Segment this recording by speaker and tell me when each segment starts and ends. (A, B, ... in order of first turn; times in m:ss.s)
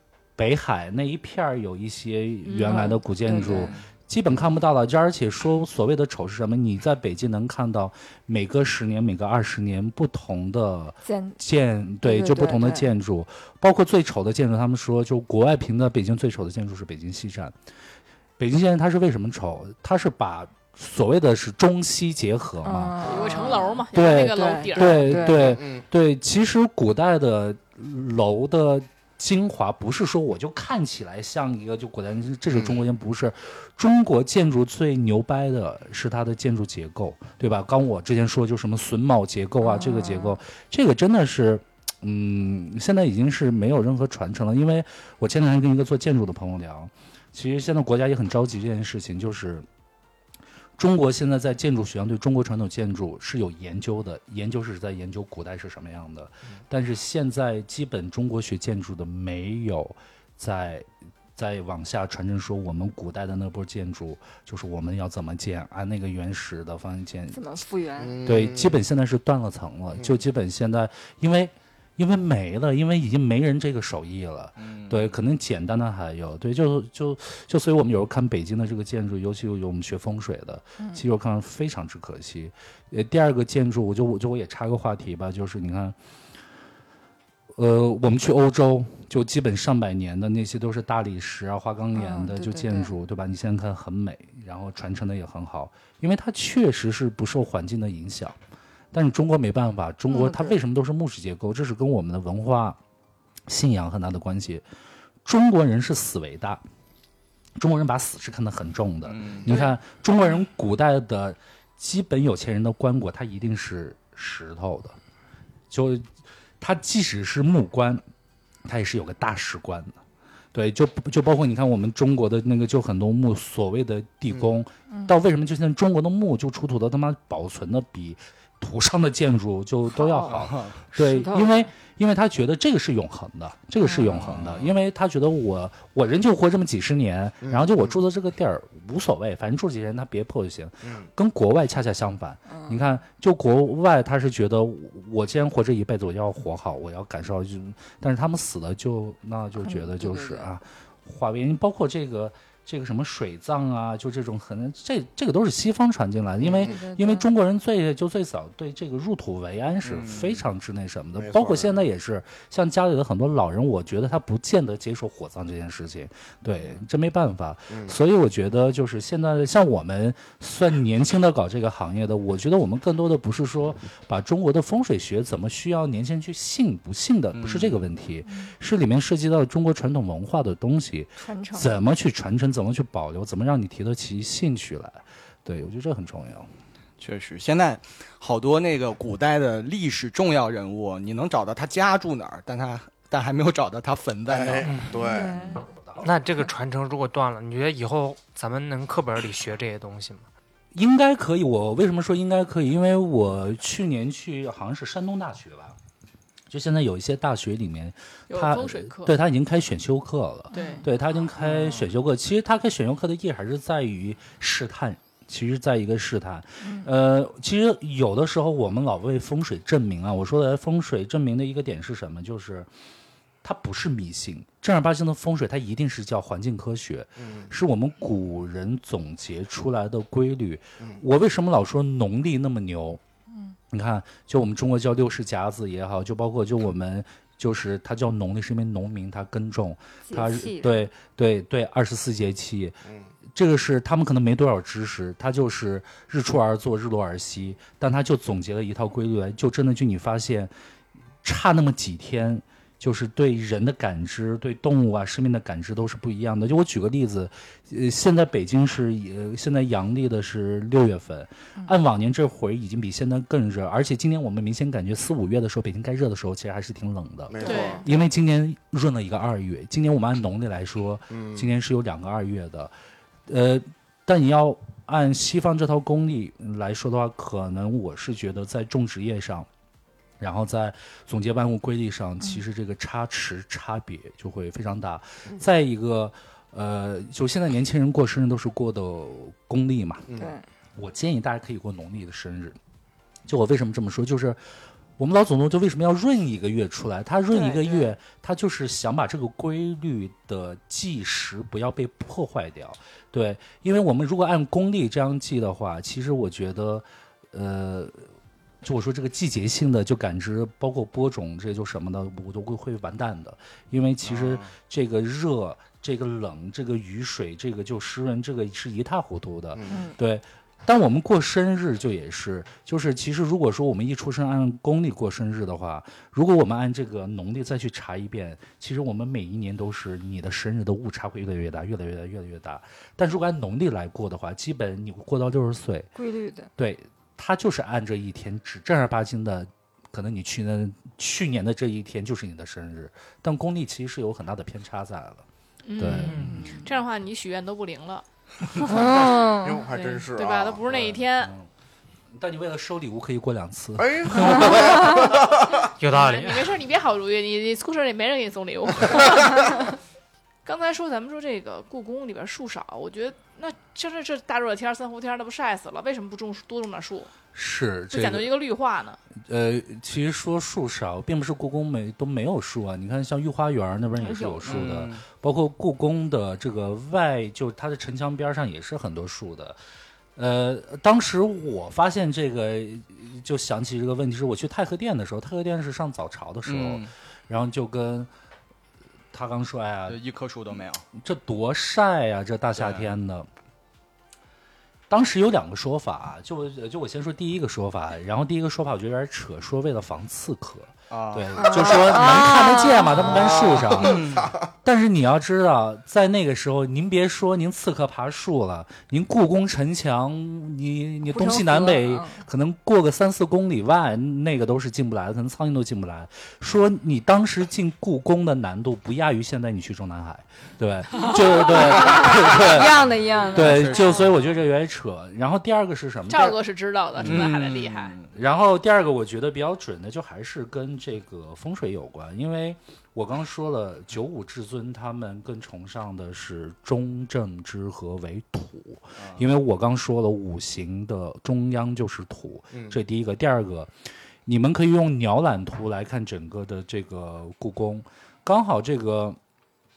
0:00.4-0:17.5 A
0:02.4-0:02.9 B
0:02.6-0:03.7 C
0:03.4-0:03.9 D
0:11.0-0:11.4 C
0:12.0-0:12.9 C
0:18.4-0:23.0 A
0:22.6-0:25.6 C
0:23.0-0:25.2 B
0:23.9-0:49.6 A
0:25.3-0:25.8 E
0:32.5-0:32.8 E
0:39.6-0:40.4 C
0:50.8-1:07.4 A
1:07.3-1:08.2 C
1:08.0-1:08.8 E
1:08.2-1:26.0 A
1:14.6-1:15.2 D
1:20.8-1:21.0 C
1:27.5-1:38.4 A
1:31.9-1:32.9 C
1:38.9-1:42.8 A
1:40.1-1:40.6 C
1:43.5-1:44.6 A
1:45.2-1:46.6 A
1:47.6-1:55.0 A
1:49.0-1:49.6 D
1:55.7-1:56.1 A
1:56.6-1:58.0 A
1:58.6-2:00.0 A
2:00.5-3:06.5 A
2:04.9-2:05.1 C
2:09.9-2:10.4 C
2:10.3-2:10.8 D
2:10.9-2:11.7 C
2:13.8-2:14.1 C
2:14.0-2:14.7 D
2:17.4-2:18.0 E
2:20.8-2:21.1 E
2:22.5-2:22.8 C
2:29.6-2:30.5 C
2:36.4-2:36.8 E
2:36.6-2:37.3 C
2:39.8-2:40.4 D
2:41.2-2:41.8 E
2:47.7-2:48.0 E
2:57.3-2:57.8 D
3:01.2-3:01.8 C
3:07.0-3:14.7 D
3:14.3-3:15.3 E
3:14.6-3:14.9 F
3:15.0-3:15.6 C
3:15.3-3:16.1 A
3:16.0-3:20.2 F
3:20.7-3:25.8 A
3:26.5-3:42.7 A
3:28.3-3:29.1 B
3:30.5-3:30.9 C
3:30.5-3:30.8 B
3:36.6-3:36.9 C
3:43.4-3:53.0 A
3:47.2-3:47.5 E
3:53.7-4:02.8 A
4:00.0-4:00.9 C
4:02.8-4:03.1 E
4:03.3-4:10.5 A
4:11.2-4:32.7 A
4:27.3-4:27.8 E
4:27.4-4:27.9 B
4:31.1-4:31.5 E
4:33.3-4:39.5 A
4:40.2-4:50.1 A
4:50.1-4:50.4 E
4:50.1-4:50.4 C
4:50.8-4:52.6 A
4:53.3-4:54.4 A
4:55.0-5:08.1 A
4:57.3-4:57.9 C
5:08.6-5:35.9 A
5:14.0-5:14.5 D
5:19.5-5:19.9 E
5:19.6-5:20.0 C
5:36.0-5:36.5 C
5:36.6-5:45.2 A
5:45.6-5:48.0 B
5:45.8-5:46.4 A
5:45.8-5:46.7 C
5:46.0-5:46.4 F
5:48.6-5:49.6 C
5:48.7-5:50.9 E
5:49.7-5:51.3 B
5:51.2-5:51.5 A
5:52.1-5:55.0 A
5:53.8-5:55.7 E
5:54.4-5:55.1 C
5:55.8-5:56.5 F
5:55.8-5:59.6 B
6:00.4-6:07.1 B
6:07.3-6:08.3 A
6:07.9-6:09.0 B
6:09.2-6:19.6 A
6:14.0-6:14.7 C
6:14.4-6:15.0 D
6:20.2-6:28.1 A
6:26.4-6:26.9 D
6:29.1-6:30.0 A
6:29.9-6:30.8 D
6:30.9-6:33.3 A
6:32.6-6:32.9 D
6:34.9-7:06.4 A
6:40.9-6:42.1 D
6:41.3-6:43.5 C
6:43.1-6:44.3 D
6:43.7-6:44.3 E
6:51.1-6:52.2 C
7:01.1-7:04.1 C
7:03.2-7:04.1 D
7:06.1-7:08.0 B
7:07.0-7:07.3 A
7:07.0-7:08.1 D
7:08.1-7:23.7 A
7:19.0-7:19.2 D
7:22.5-7:22.8 E
7:24.2-7:29.2 A